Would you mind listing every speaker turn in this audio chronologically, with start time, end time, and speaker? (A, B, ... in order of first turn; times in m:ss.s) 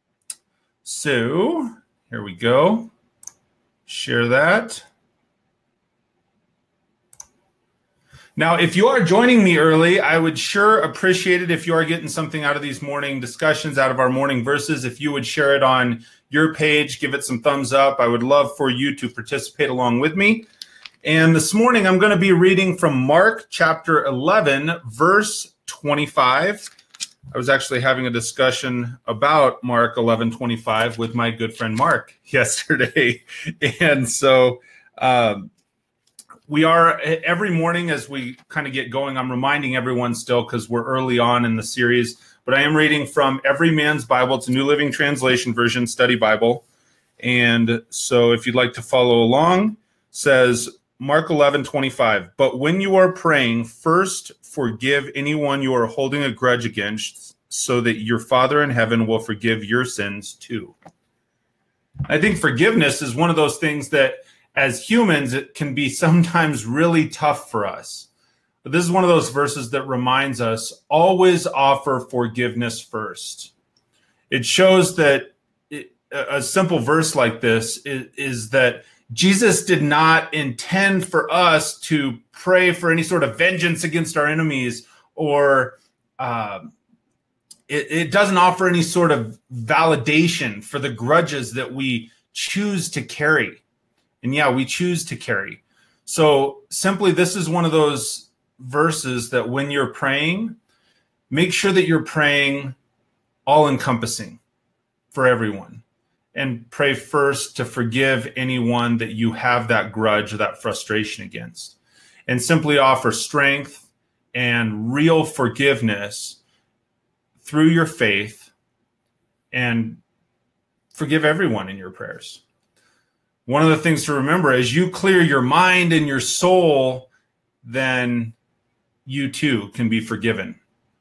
0:00.8-0:02.9 A
0:03.9-0:04.8 A
0:08.4-0:20.5 A
0:21.0-0:26.6 A
0:27.3-0:35.5 A
0:36.5-0:46.6 A
0:47.2-1:00.8 A
1:02.1-1:08.1 A
1:08.6-1:13.5 A
1:14.3-1:26.7 A
1:27.7-1:33.6 A
1:34.2-1:40.6 A
1:41.3-1:42.8 A
1:43.5-1:44.4 A
1:45.1-1:45.8 A
1:46.3-1:51.8 A
1:52.3-1:56.4 A
1:57.4-1:58.5 A
1:59.5-2:00.0 A
2:00.9-2:02.4 A
2:03.5-2:07.1 A
2:07.6-2:08.4 A
2:09.1-2:10.6 A